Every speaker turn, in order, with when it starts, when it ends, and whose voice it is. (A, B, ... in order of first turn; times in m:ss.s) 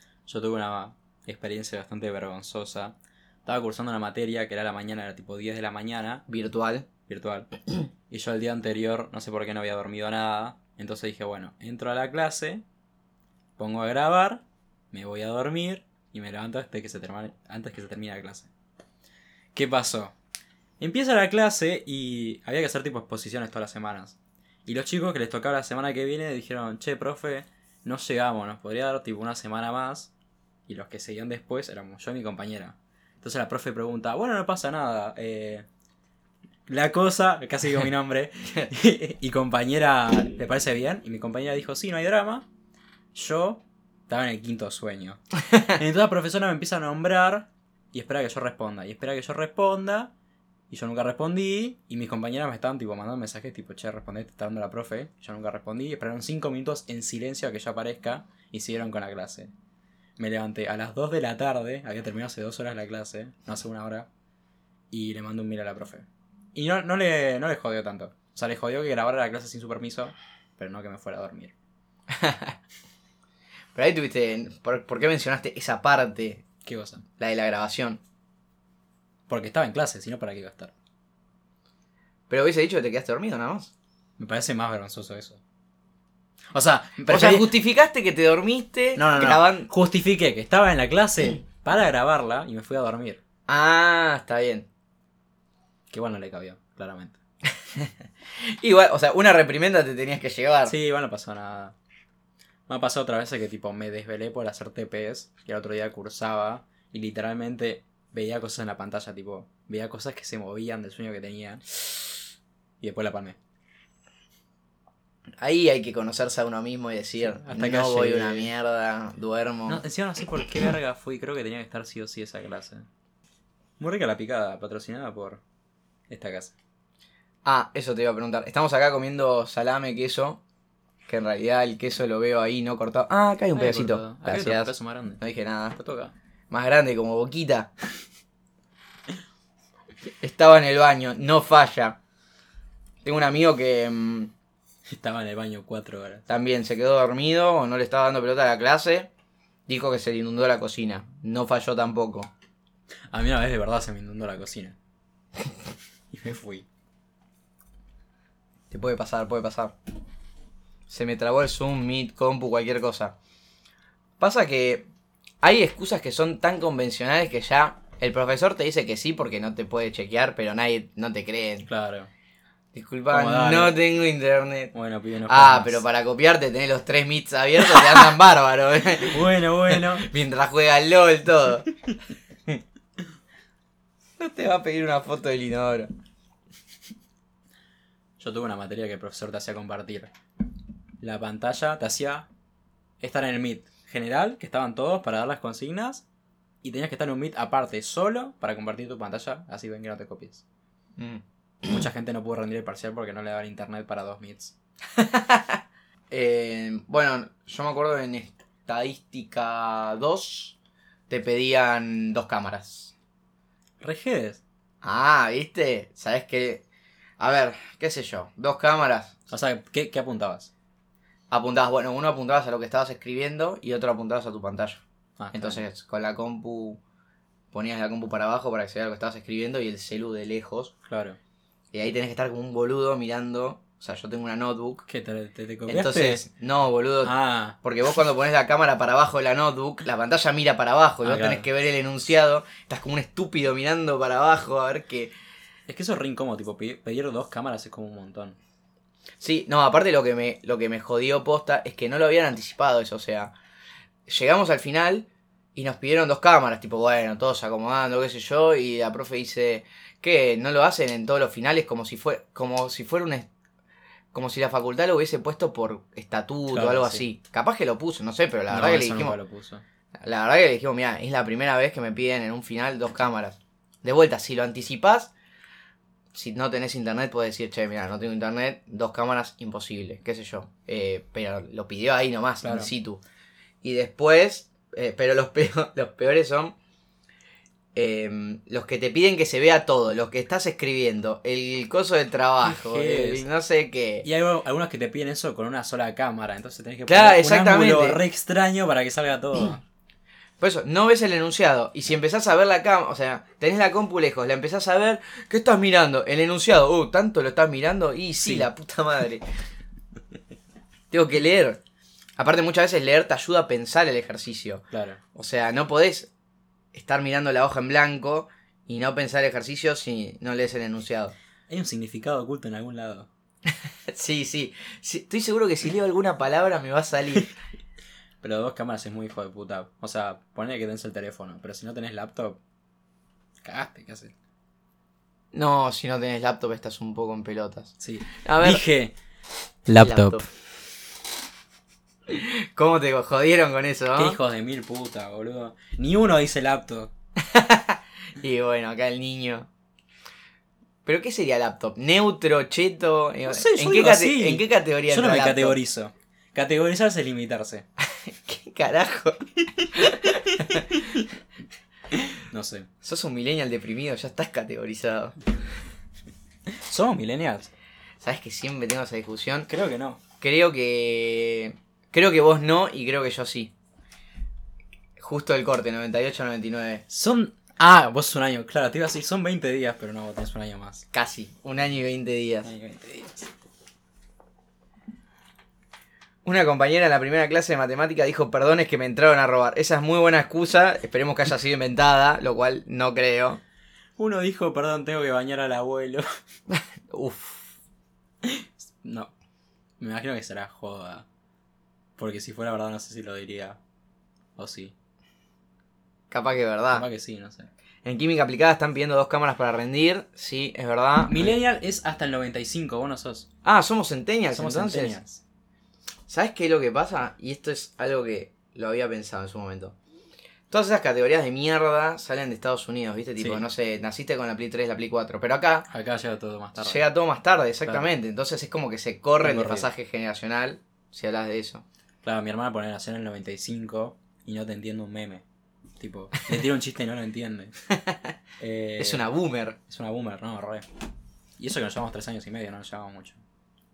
0:00.2-0:06.2 A
0:06.3-0:06.9 B
0:07.1-0:07.5 A
0:08.1-0:12.6 A
0:13.6-0:18.5 A
0:19.5-0:20.1 A
0:20.8-0:30.1 A
0:30.7-0:35.6 A
0:36.7-0:42.4 A
0:43.1-0:50.1 A
0:50.7-0:59.5 A
1:00.2-1:04.1 A
1:04.9-1:11.5 A
1:12.1-1:12.6 B
1:13.7-1:16.4 B
1:16.6-1:17.0 A
1:17.2-1:18.0 B
1:19.3-1:20.7 A
1:22.3-1:23.7 B
1:24.2-1:25.4 A
1:26.5-1:27.5 A
1:27.1-1:29.7 B
1:29.0-1:33.2 A
1:33.5-1:34.7 B
1:35.9-1:37.2 A
1:37.7-1:40.7 B
1:40.6-1:41.7 A
1:42.7-1:51.8 A
1:52.8-1:53.4 A
1:55.4-1:59.8 B
1:57.2-1:58.5 A
1:59.7-2:02.8 A
2:03.8-2:05.4 A
2:06.1-2:06.5 A
2:07.4-2:10.4 B
2:11.1-2:15.8 B
2:13.5-2:15.2 A
2:15.7-2:16.1 A
2:16.5-2:17.7 B
2:20.2-2:22.0 B
2:23.0-2:24.3 B
2:24.9-2:26.2 A
2:26.3-2:29.1 B
2:29.7-2:32.3 B
2:33.1-2:34.8 A
2:36.1-2:36.6 A
2:38.7-2:39.7 B
2:40.9-2:43.1 B
2:44.2-2:44.9 B
2:45.4-2:51.7 B
2:51.7-2:52.1 A
2:52.7-2:54.7 B
2:53.1-2:53.8 A
2:54.7-2:55.8 A
2:55.3-3:01.7 B
2:59.0-3:00.1 A
3:04.2-3:05.9 B
3:08.2-3:10.1 A
3:11.0-3:12.3 A
3:13.0-3:16.0 A
3:16.6-3:20.4 A
3:21.0-3:21.8 B
3:21.6-3:24.5 A
3:25.0-3:25.6 B
3:26.1-3:30.5 B
3:31.1-3:32.9 B
3:33.8-3:34.4 A
3:34.8-3:36.6 B
3:37.2-3:39.1 B
3:39.3-3:40.5 A
3:41.3-3:44.8 B
3:45.2-3:45.6 A
3:45.3-3:46.8 B
3:47.5-3:50.7 B
3:50.8-3:51.2 A
3:51.7-3:54.8 B
3:54.8-3:56.2 A
3:55.7-4:05.1 B
3:57.0-3:57.6 A
4:01.0-4:01.4 A
4:05.7-4:08.4 A
4:09.2-4:13.3 B
4:14.1-4:23.3 B
4:24.1-4:29.2 B
4:26.5-4:27.1 A
4:28.5-4:29.6 A
4:30.0-4:35.1 B
4:36.1-4:43.0 B
4:42.4-4:42.7 A
4:43.6-4:46.5 B
4:47.7-4:54.0 B
4:52.4-4:53.3 A
4:54.0-4:59.6 A
4:56.9-4:58.0 B
5:00.4-5:09.2 B
5:08.2-5:08.5 A
5:10.9-5:11.6 B
5:12.2-5:14.6 B
5:14.7-5:15.0 A
5:15.1-5:16.1 B
5:16.7-5:21.1 B
5:21.5-5:23.1 A
5:23.9-5:27.3 B
5:28.2-5:32.4 A
5:33.4-5:34.1 A
5:35.3-5:38.6 B
5:37.8-5:38.9 A
5:39.7-5:40.2 A
5:39.8-5:40.2 B
5:42.1-5:44.2 B
5:44.0-5:46.9 A
5:47.2-5:49.5 B
5:50.8-5:55.6 B
5:53.3-5:57.6 A
5:57.8-6:01.0 B
6:00.7-6:01.0 A
6:02.0-6:02.7 A
6:02.8-6:05.2 B
6:06.5-6:07.5 A
6:08.0-6:09.5 B
6:09.5-6:10.0 A
6:10.2-6:13.5 B
6:15.0-6:16.8 B
6:16.9-6:20.8 A
6:20.9-6:22.5 B
6:22.4-6:23.3 A
6:26.2-6:33.4 B
6:34.0-6:36.0 A
6:36.5-6:37.5 B
6:38.2-6:39.1 A
6:39.8-6:41.0 A
6:42.0-6:43.6 A
6:44.4-6:44.7 A
6:46.1-6:46.8 B
6:46.7-6:47.5 A
6:47.8-6:51.3 B
6:51.0-6:53.3 A
6:53.4-6:55.0 B
6:54.3-6:55.2 A
6:56.1-6:59.7 B
7:00.5-7:05.7 B
7:03.2-7:03.4 A
7:05.7-7:06.8 A
7:06.6-7:11.6 B
7:09.2-7:09.7 A
7:12.0-7:15.2 A
7:15.8-7:17.5 A
7:18.4-7:19.1 A
7:18.8-7:19.6 B
7:19.7-7:20.6 A
7:21.4-7:23.2 A